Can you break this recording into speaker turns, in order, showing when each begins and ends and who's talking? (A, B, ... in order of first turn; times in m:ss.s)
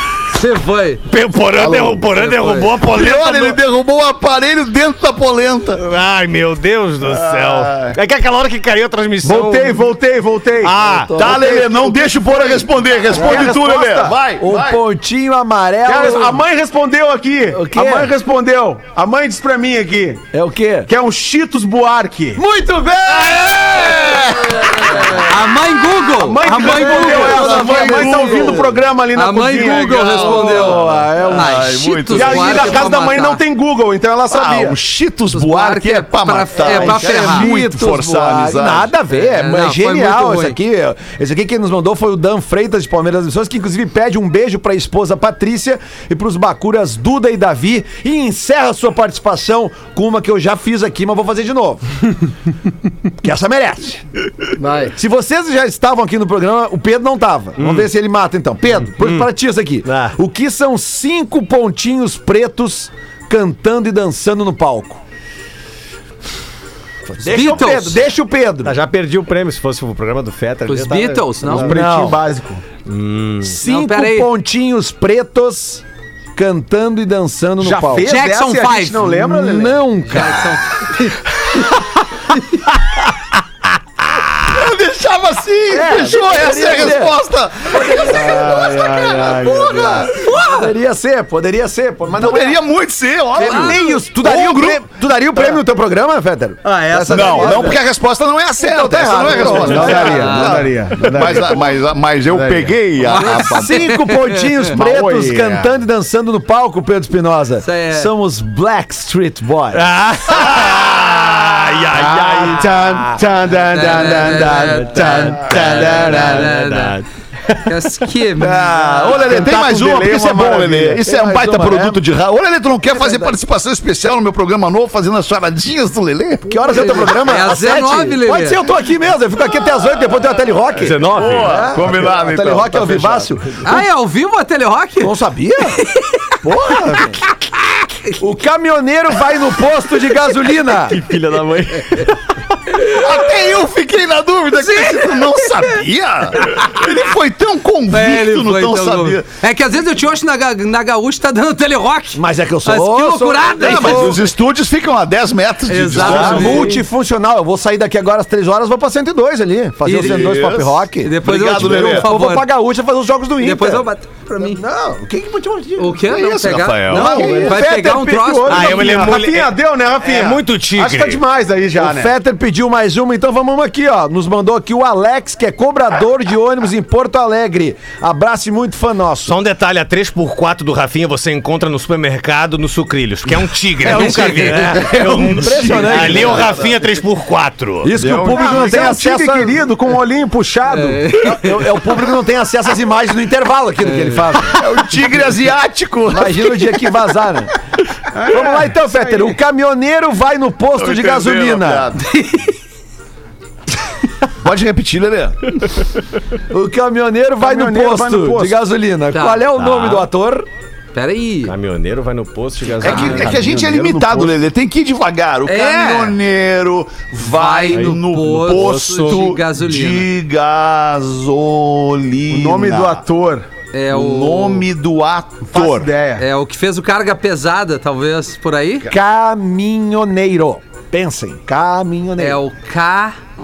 0:00.3-0:01.0 A
0:01.1-0:03.6 B
0:02.0-0:02.8 A
0:02.8-0:05.8 C
0:05.8-0:09.9 B
0:07.0-0:08.0 C
0:09.2-0:10.8 D
0:10.6-0:11.3 B
0:10.8-0:11.9 E
0:11.2-0:14.8 C
0:13.1-0:14.2 D
0:14.4-0:16.4 E
0:15.8-0:20.3 D
0:17.5-0:18.1 E
0:20.3-0:20.9 E
0:20.9-0:22.4 D
0:22.4-0:25.3 E
0:23.1-0:24.9 C
0:25.1-0:28.3 A
0:26.2-0:34.8 D
0:26.6-0:28.7 C
0:26.8-0:28.6 E
0:29.1-0:33.4 A
0:29.6-0:32.9 C
0:34.3-0:38.9 C
0:35.3-0:37.5 A
0:36.6-0:52.2 E
0:39.1-0:40.6 A
0:53.2-0:54.0 E
0:54.6-0:54.9 A
0:54.8-1:05.0 E
0:57.6-0:57.9 B
0:59.0-0:59.2 B
0:59.8-1:00.2 B
1:07.2-1:08.8 E
1:07.2-1:08.0 A
1:08.6-1:11.8 B
1:10.7-1:11.8 A
1:11.5-1:12.6 D
1:11.6-1:12.2 E
1:12.8-1:13.6 B
1:13.4-1:15.8 E
1:13.6-1:14.3 A
1:16.4-1:18.2 E
1:17.6-1:19.8 D
1:18.0-1:19.2 A
1:19.1-1:20.6 E
1:20.0-1:21.2 A
1:24.4-1:30.1 C
1:25.7-1:28.6 E
1:28.1-1:30.1 D
1:29.2-1:32.6 E
1:30.1-1:30.7 A
1:32.1-1:35.6 C
1:33.4-1:37.8 E
1:33.4-1:33.9 A
1:36.6-1:37.8 A
1:37.1-1:43.8 C
1:38.6-1:40.6 E
1:39.3-1:40.6 A
1:39.5-1:41.6 D
1:42.3-1:42.8 D
1:43.1-1:44.7 A
1:43.2-1:49.8 E
1:44.7-1:45.7 D
1:47.6-1:48.1 A
1:49.7-1:53.1 B
1:50.3-1:52.0 C
1:51.9-1:56.5 D
1:53.7-1:57.0 A
1:54.5-1:58.0 B
1:57.5-1:59.1 A
1:58.4-2:07.1 C
1:58.8-1:59.3 E
1:59.1-2:02.0 D
2:01.0-2:01.8 E
2:02.9-2:03.2 A
2:06.5-2:13.7 E
2:06.6-2:08.6 A
2:10.8-2:11.8 B
2:10.9-2:13.3 C
2:13.6-2:15.2 A
2:15.0-2:15.8 E
2:15.7-2:16.2 A
2:16.4-2:17.2 E
2:18.2-2:21.0 E
2:20.9-2:22.4 B
2:22.8-2:29.3 C
2:24.6-2:25.7 A
2:26.4-2:26.8 A
2:27.9-2:34.2 A
2:32.1-2:34.2 E
2:33.6-2:36.8 C
2:35.7-2:36.8 A
2:35.9-2:43.8 E
2:39.8-2:40.4 A
2:39.9-2:42.1 C
2:41.0-2:42.5 A
2:43.4-2:44.6 A
2:44.4-2:46.0 E
2:45.8-2:49.1 A
2:46.1-2:47.5 C
2:46.9-2:47.6 E
2:46.9-2:52.1 D
2:48.5-2:51.2 B
2:51.7-2:59.3 E
2:59.2-3:07.9 B
3:03.8-3:06.7 E
3:03.9-3:04.8 A
3:05.5-3:06.7 C
3:07.8-3:09.6 E
3:08.0-3:08.8 C
3:08.2-3:11.1 D
3:10.7-3:11.8 A
3:11.2-3:14.6 E
3:14.5-3:16.7 C
3:16.1-3:17.5 E
3:18.1-3:19.4 D
3:18.3-3:21.9 E
3:20.8-3:22.0 C
3:22.0-3:22.5 A
3:24.4-3:25.6 C
3:26.5-3:30.4 E
3:27.4-3:28.6 D
3:29.1-3:29.4 A
3:29.6-3:30.1 B
3:30.9-3:31.5 A
3:31.5-3:33.4 B
3:32.8-3:43.0 C
3:32.8-3:33.2 A
3:32.9-3:34.3 D
3:35.5-3:36.2 A
3:37.2-3:40.1 A
3:38.5-3:39.2 B
3:42.3-3:43.5 D
3:43.7-3:44.7 A
3:43.9-3:45.9 C
3:45.5-3:46.2 D
3:46.2-3:48.9 A
3:48.9-3:52.4 E
3:52.2-3:53.1 A